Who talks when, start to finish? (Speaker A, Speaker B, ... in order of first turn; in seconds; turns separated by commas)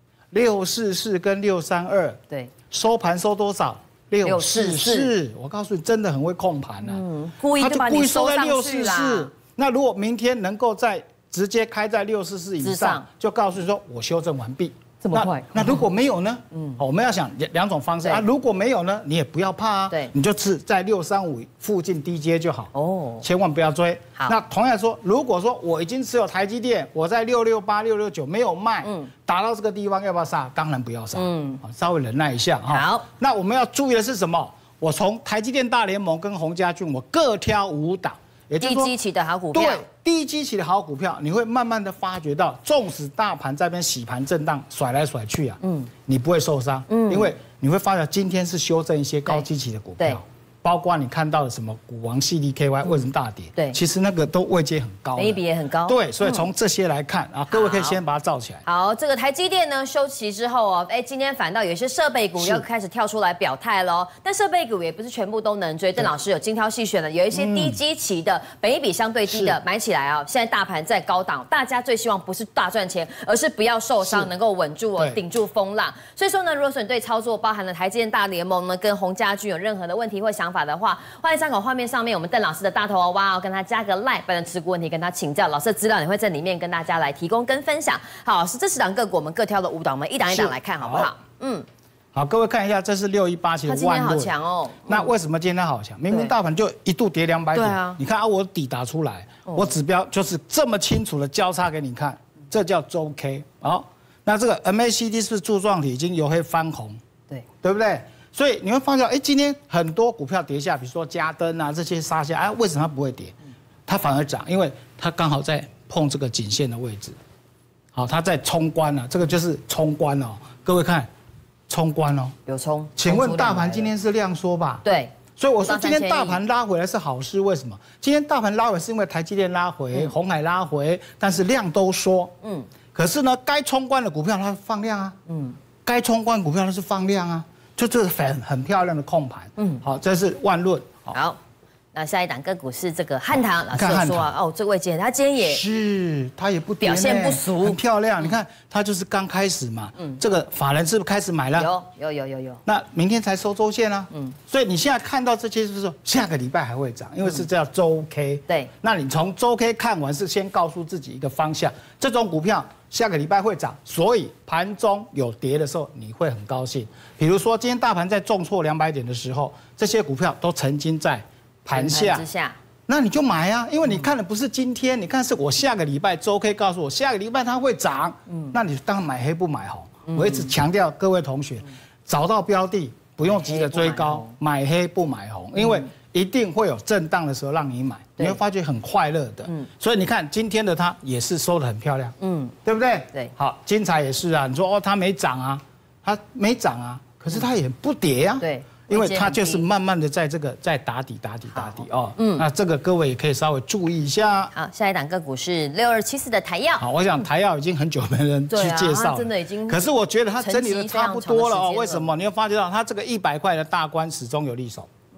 Speaker A: 0.3-7.0, Speaker B: 4.2-5.1, Speaker B: 6.8-9.3, Speaker A: 7.5-22.7, Speaker B: 12.6-13.0, Speaker B: 15.0-15.8, Speaker B: 16.5-16.8, Speaker B: 22.7-23.2, Speaker A: 23.2-38.9, Speaker B: 28.8-29.1, Speaker B: 31.1-31.6, Speaker B: 32.7-33.0, Speaker B: 38.6-39.9, Speaker A: 39.5-58.6, Speaker B: 45.6-45.9, Speaker B: 46.9-47.3, Speaker B: 55.1-56.5, Speaker B: 57.5-58.0, Speaker B: 58.6-91.7, Speaker A: 67.3-67.8, Speaker A: 69.3-69.6, Speaker A: 74.0-74.3, Speaker A: 90.3-91.1, Speaker A: 92.1-94.3, Speaker B: 93.6-95.1, Speaker A: 94.9-107.0, Speaker B: 97.5-98.0, Speaker B: 99.5-99.7, Speaker A: 107.6-113.3, Speaker A: 113.9-117.2, Speaker A: 117.9-121.1, Speaker A: 121.7-122.3, Speaker B: 122.5-123.9, Speaker A: 123.0-132.3, Speaker B: 124.8-126.4, Speaker B: 132.4-132.7, Speaker A: 132.9-135.2, Speaker B: 135.3-135.6, Speaker A: 135.8-141.1, Speaker B: 141.1-141.4, Speaker B: 141.9-145.6, Speaker A: 143.7-144.3, Speaker A: 145.4-151.7, Speaker B: 146.8-148.3, Speaker B: 151.6-152.6, Speaker A: 152.7-172.3, Speaker B: 171.7-172.6, Speaker A: 172.9-204.5, Speaker B: 180.1-180.5, Speaker B: 183.3-184.3, Speaker B: 185.6-185.9, Speaker B: 192.2-192.5, Speaker B: 198.4-199.6, Speaker B: 201.5-202.4, Speaker B: 204.5-206.8, Speaker A: 206.8-214.9, Speaker B: 208.5-209.8, Speaker B: 210.4-212.1